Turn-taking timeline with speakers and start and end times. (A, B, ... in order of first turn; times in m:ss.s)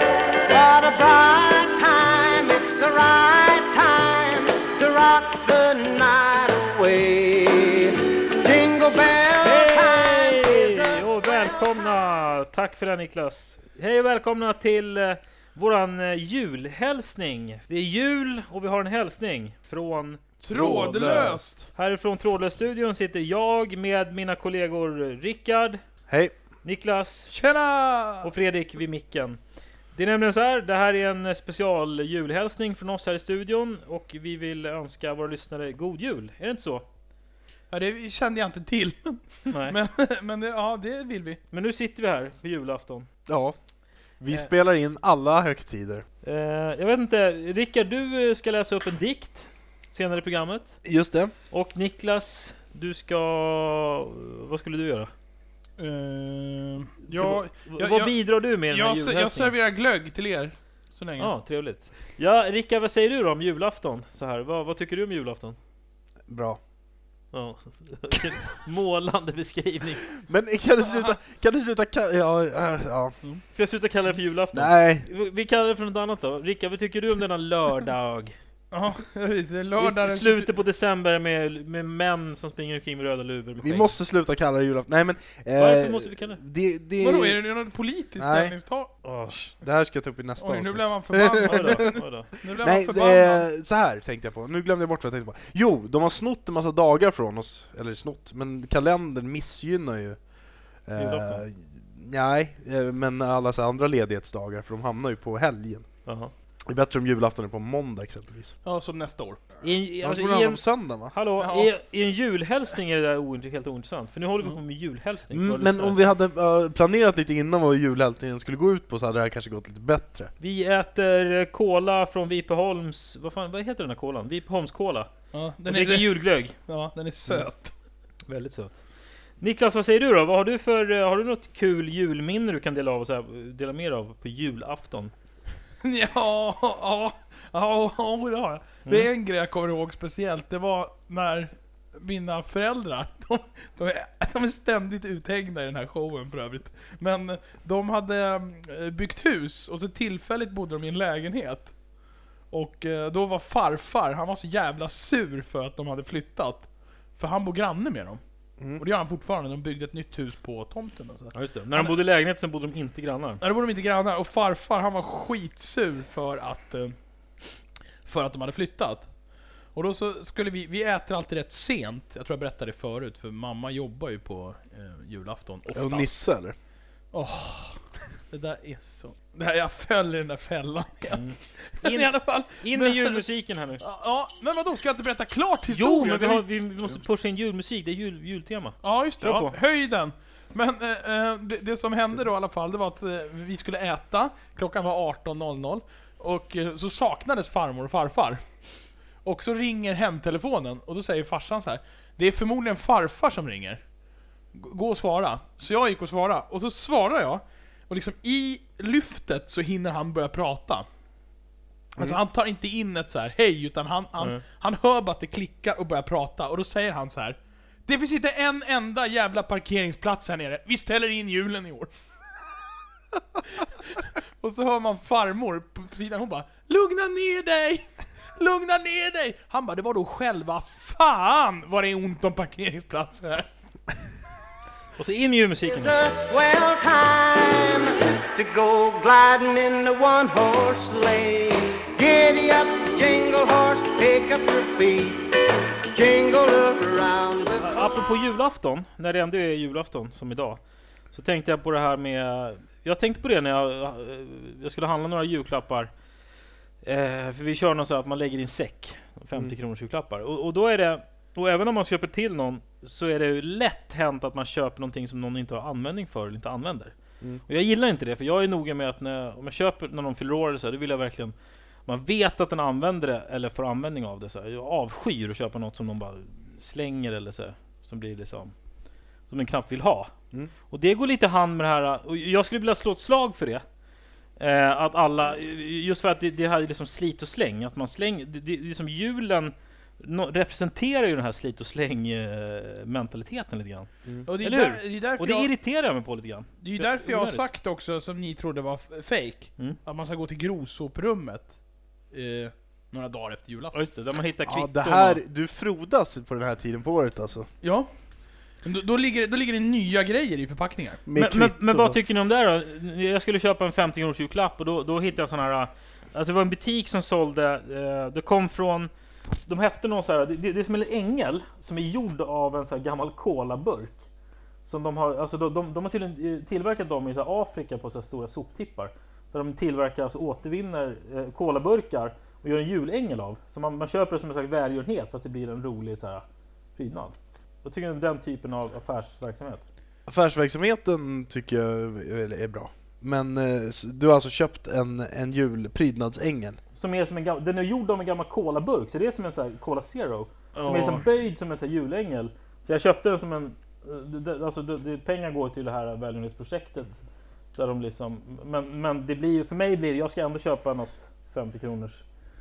0:00.5-0:11.5 A
0:09.4-0:25.8 B
0:20.4-0:21.6 C
0:20.4-0:21.5 D
0:26.1-0:26.3 C
0:26.6-0:27.4 B
0:27.3-0:28.3 D
0:28.2-0:29.4 B
0:29.9-0:36.8 B
0:37.7-0:41.4 D
0:39.5-0:39.8 B
0:41.5-0:43.1 B
0:43.3-0:43.6 C
0:44.2-0:46.0 C
0:46.2-0:50.8 B
0:50.8-0:51.3 C
0:51.5-0:55.1 B
0:55.8-1:01.3 D
0:57.1-0:59.5 B
1:01.2-1:05.6 B
1:06.3-1:06.6 C
1:07.3-1:10.1 B
1:10.2-1:13.2 C
1:10.8-1:11.2 D
1:13.5-1:18.4 B
1:14.5-1:15.1 C
1:18.7-1:20.6 D
1:19.8-1:24.0 B
1:23.6-1:27.4 C
1:25.6-1:26.4 B
1:27.0-1:28.9 D
1:28.2-1:28.6 C
1:29.0-1:29.5 B
1:29.4-1:31.9 C
1:30.4-1:33.5 D
1:31.4-1:32.3 B
1:32.5-1:40.2 C
1:40.9-1:45.9 C
1:41.0-1:41.4 B
1:46.0-1:46.3 B
1:46.7-1:48.5 C
1:48.6-1:49.4 D
1:49.6-1:56.0 B
1:50.0-1:51.2 C
1:51.4-1:51.7 D
1:55.3-2:00.3 C
2:00.4-2:05.1 B
2:05.3-2:07.7 D
2:05.6-2:06.6 B
2:08.3-2:08.8 B
2:09.4-2:15.1 B
2:15.8-2:31.8 D
2:32.5-2:38.2 D
2:38.6-2:38.8 C
2:38.7-2:42.1 D
2:41.3-2:43.4 B
2:43.4-2:47.5 D
2:48.0-2:49.1 D
2:49.8-2:56.1 D
2:55.7-2:56.6 C
2:57.1-3:03.3 D
3:01.1-3:03.8 B
3:03.8-3:06.5 D
3:05.7-3:09.6 B
3:08.8-3:18.4 D
3:19.2-3:23.8 D
3:24.5-3:30.9 D
3:32.0-3:41.9 D
3:43.4-3:53.5 D
3:55.0-3:56.0 B
3:55.8-4:07.8 A
4:07.6-4:10.6 B
4:11.1-4:15.9 B
4:16.8-4:31.3 B
4:31.9-4:38.5 B
4:39.3-4:40.1 B
4:40.7-4:43.6 B
4:44.4-4:57.5 B
4:54.3-4:55.5 D
4:56.6-5:01.6 D
5:02.1-5:03.8 D
5:03.7-5:05.2 B
5:04.5-5:07.5 C
5:07.6-5:07.9 D
5:08.6-5:11.0 D
5:11.1-5:12.0 C
5:11.1-5:18.9 B
5:19.4-5:24.0 B
5:24.6-5:36.2 B
5:36.8-5:39.6 B
5:40.1-5:46.6 C
5:46.8-5:57.0 B
5:50.5-5:51.0 D
5:57.5-6:02.0 B